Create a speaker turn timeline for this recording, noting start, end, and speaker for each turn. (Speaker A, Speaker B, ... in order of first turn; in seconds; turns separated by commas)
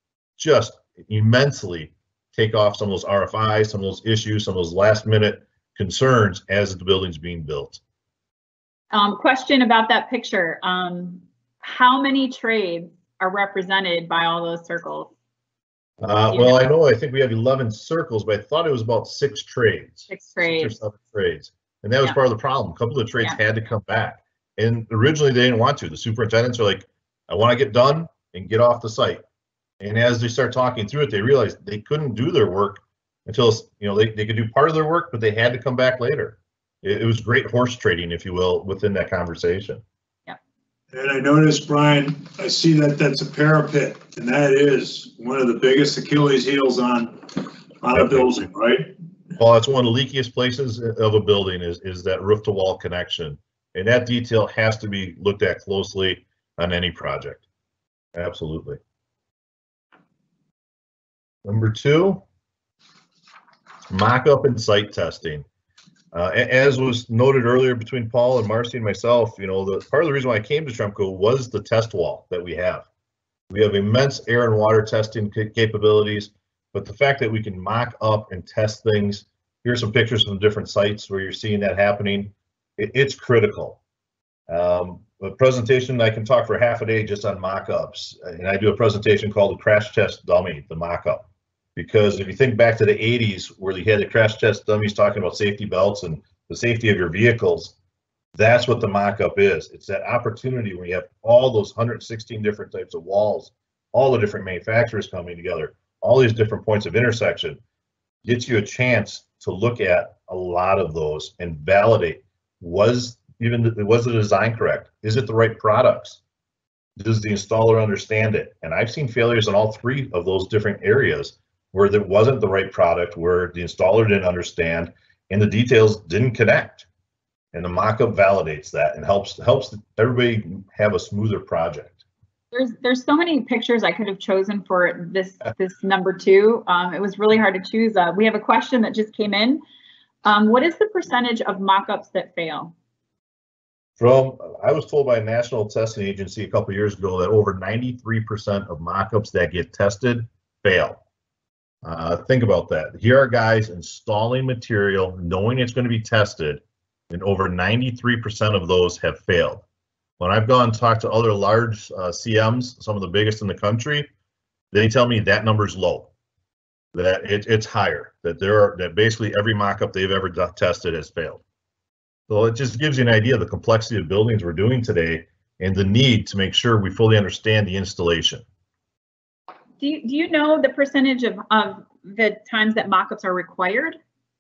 Speaker A: 0.4-7.8, Speaker B: 8.9-15.1, Speaker A: 16.0-29.2, Speaker B: 16.3-16.7, Speaker B: 20.1-20.7, Speaker A: 29.8-39.8, Speaker C: 40.9-48.9, Speaker A: 47.9-48.3, Speaker A: 49.4-57.4, Speaker A: 58.1-58.8, Speaker A: 61.4-62.2, Speaker A: 63.9-65.4, Speaker A: 66.1-72.9, Speaker A: 73.5-83.8, Speaker A: 84.5-97.8, Speaker A: 98.3-107.6, Speaker A: 108.2-116.2, Speaker A: 117.0-126.9, Speaker A: 127.5-132.0, Speaker B: 132.5-139.6, Speaker B: 140.2-142.7, Speaker A: 144.0-151.0, Speaker A: 151.8-159.6, Speaker A: 160.2-164.1, Speaker A: 164.7-166.1, Speaker A: 166.9-171.4, Speaker A: 172.3-178.4, Speaker B: 179.8-184.0